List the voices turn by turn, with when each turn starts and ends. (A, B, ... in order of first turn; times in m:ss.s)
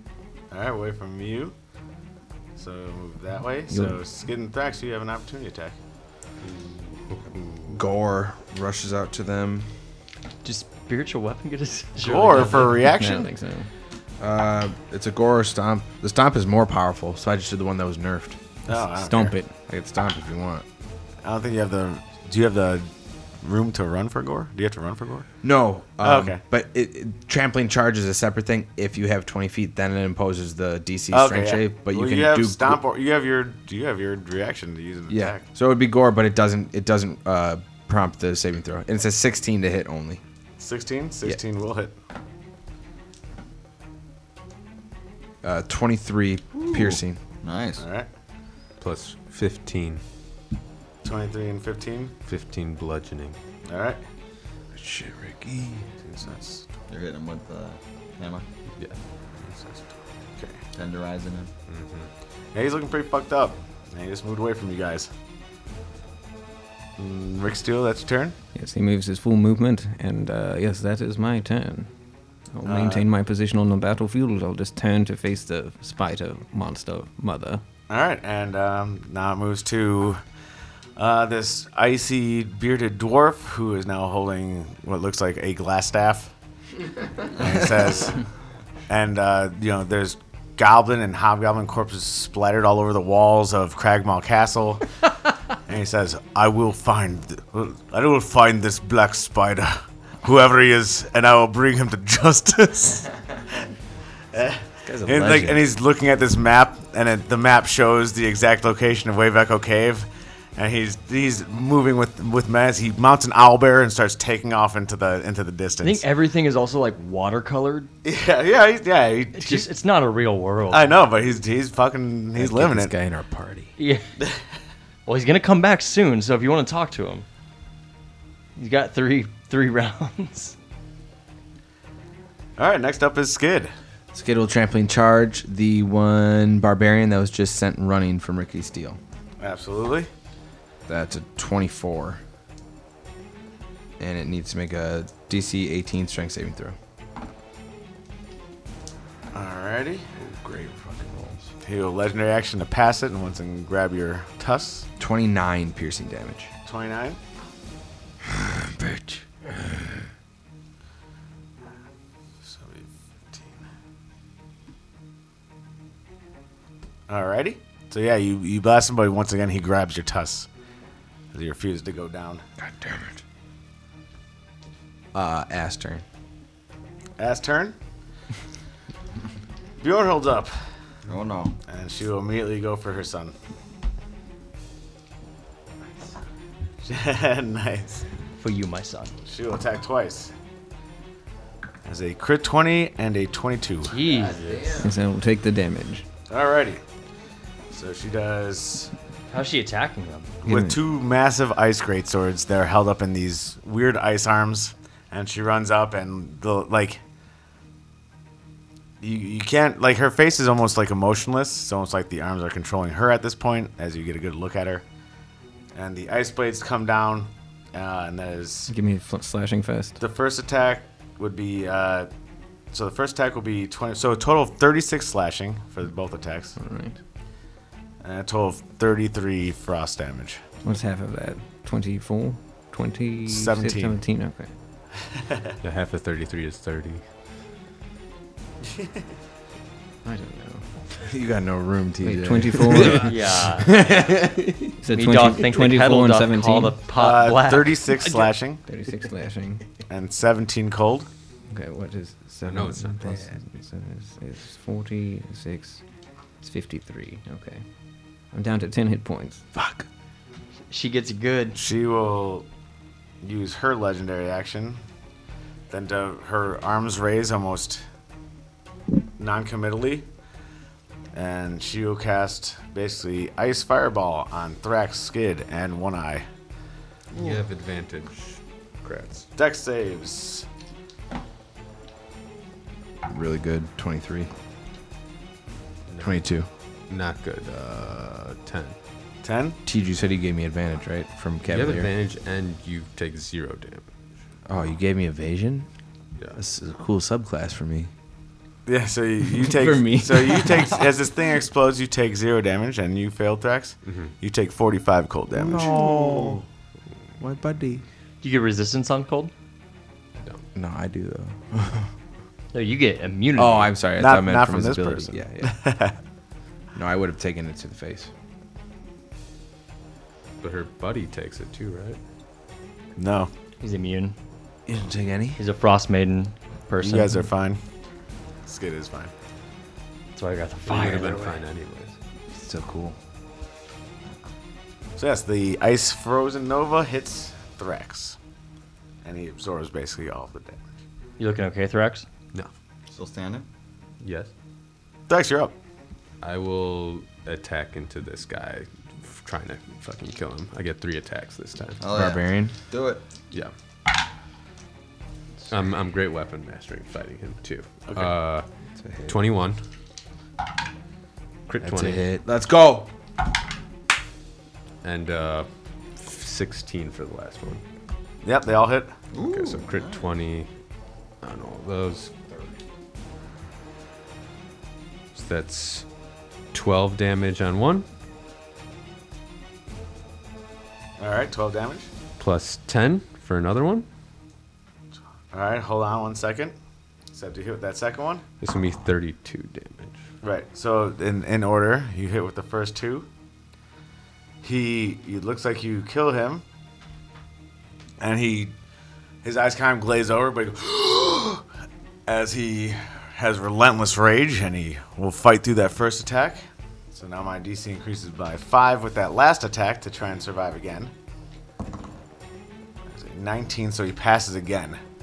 0:00.5-0:01.5 A
0:02.6-0:05.7 A
0:03.7-0:04.0 B
0:06.4-0:07.8 C
0:07.7-0:09.7 D
0:10.4-0:12.8 E
0:12.0-0:13.3 A
0:12.7-0:13.7 B
0:14.2-0:18.4 D
0:18.7-0:19.4 A
0:18.7-0:19.5 B
0:19.7-0:20.6 D
0:21.2-0:25.3 A
0:25.4-0:32.8 D
0:26.0-0:26.4 A
0:31.1-0:35.4 A
0:35.1-0:40.2 D
0:40.6-0:42.0 A
0:45.4-0:47.2 D
0:46.7-0:47.9 F
0:47.8-0:48.1 A
0:48.8-0:50.0 C
0:51.0-0:52.1 A
0:52.3-0:53.4 C
0:53.6-0:54.0 A
0:54.7-0:55.9 D
0:56.0-0:56.6 A
0:56.9-0:58.4 F
0:58.7-0:59.0 C
0:59.4-1:00.6 A
1:00.7-1:01.5 F
1:01.7-1:02.1 C
1:02.5-1:05.1 A
1:07.0-1:08.4 A
1:08.6-1:11.9 B
1:12.5-1:17.6 B
1:12.6-1:13.1 A
1:17.9-1:20.2 A
1:21.0-1:26.3 A
1:27.4-1:28.2 A
1:28.9-1:34.8 A
1:35.7-1:43.1 A
1:44.3-1:56.0 A
1:44.8-1:45.6 D
1:55.8-1:57.9 E
1:58.0-1:59.7 A
1:59.3-2:01.0 E
2:00.7-2:02.9 A
2:02.4-2:03.7 D
2:03.8-2:04.0 E
2:05.0-2:07.2 E
2:08.6-2:10.5 E
2:12.6-2:13.7 A
2:14.1-2:19.0 D
2:19.4-2:20.1 A
2:20.9-2:22.2 D
2:24.0-2:26.8 D
2:29.3-2:30.1 A
2:30.2-2:31.5 D
2:31.6-2:34.9 A
2:35.0-2:36.5 D
2:36.7-2:37.2 A
2:38.2-2:40.0 D
2:42.4-2:43.6 A
2:47.1-2:50.5 A
2:51.3-2:52.4 A
2:52.6-2:53.2 D
2:55.1-2:56.0 D
2:57.2-2:57.8 A
2:59.8-3:00.5 A
3:01.0-3:01.6 F
3:01.7-3:03.3 A
3:06.8-3:08.0 A
3:08.4-3:09.1 E
3:09.2-3:10.3 A
3:11.8-3:14.0 A
3:13.9-3:14.8 E
3:14.4-3:14.9 D
3:14.8-3:16.0 B
3:16.3-3:16.8 A
3:17.7-3:18.9 A
3:19.3-3:20.3 E
3:20.4-3:27.0 A
3:29.0-3:34.8 A
3:35.8-3:38.7 A
3:38.7-3:40.0 B
3:40.0-3:42.1 A
3:42.7-3:46.6 A
3:46.6-3:47.0 B
3:48.0-3:50.4 A
3:50.6-3:54.6 B
3:53.3-3:54.0 A
3:55.2-3:55.5 A
3:55.6-3:57.0 C
3:58.7-3:59.0 A
4:00.0-4:00.9 B
4:01.0-4:04.7 D
4:02.0-4:03.1 B
4:03.0-4:03.8 E
4:04.8-4:06.8 B
4:04.9-4:08.3 E
4:06.9-4:08.6 A
4:08.7-4:09.8 B
4:09.9-4:11.1 A
4:11.5-4:15.8 B
4:12.5-4:13.2 C
4:16.4-4:17.6 B
4:18.3-4:19.4 B
4:19.5-4:19.9 D
4:20.7-4:21.6 E
4:21.5-4:22.5 A
4:23.2-4:24.8 A
4:25.7-4:27.8 A
4:29.2-4:30.0 A
4:31.1-4:36.2 A
4:37.1-4:39.3 C
4:39.4-4:40.4 A
4:43.0-4:44.3 D
4:45.9-4:48.8 C
4:46.0-4:46.5 D
4:49.2-4:49.6 A
4:49.7-4:51.9 D
4:51.5-4:53.9 C
4:54.5-4:55.7 D
4:56.3-4:57.9 D
4:58.7-5:05.7 A
4:59.4-5:00.7 B
5:03.8-5:04.1 C
5:05.3-5:06.4 D
5:05.5-5:06.4 F
5:07.2-5:07.8 D
5:08.2-5:09.3 E
5:10.2-5:10.4 C
5:10.5-5:11.9 D
5:12.5-5:13.7 E
5:13.4-5:15.6 D
5:14.0-5:16.0 A
5:16.8-5:18.1 D
5:20.4-5:22.0 C
5:23.0-5:23.3 A
5:23.6-5:24.2 E
5:24.7-5:25.4 D
5:25.4-5:27.2 E
5:26.8-5:27.6 A
5:28.4-5:29.1 A
5:30.1-5:31.4 E
5:30.7-5:32.0 C
5:32.3-5:33.0 D
5:35.0-5:38.2 A
5:39.0-5:40.6 A
5:41.2-5:42.1 E
5:42.9-5:43.5 F
5:44.0-5:44.3 C
5:45.1-5:45.5 A
5:46.2-5:51.8 C
5:51.8-5:53.0 F
5:51.9-5:52.5 D
5:55.5-5:58.5 C
5:57.9-5:58.1 A
5:58.8-5:59.2 D
5:59.0-5:59.6 C
6:01.5-6:02.0 C
6:01.6-6:02.9 D
6:04.8-6:07.6 C
6:08.2-6:08.9 A
6:09.1-6:10.1 F
6:09.2-6:10.5 C
6:11.2-6:12.1 C
6:15.1-6:15.9 C
6:16.5-6:17.9 C
6:21.0-6:21.9 A
6:22.2-6:23.9 C
6:25.3-6:26.5 A
6:27.1-6:28.2 A
6:28.4-6:30.0 C
6:30.2-6:33.1 A
6:34.4-6:36.4 A
6:38.0-6:38.5 A
6:39.2-6:41.4 A
6:42.0-6:50.9 A
6:52.9-6:54.8 A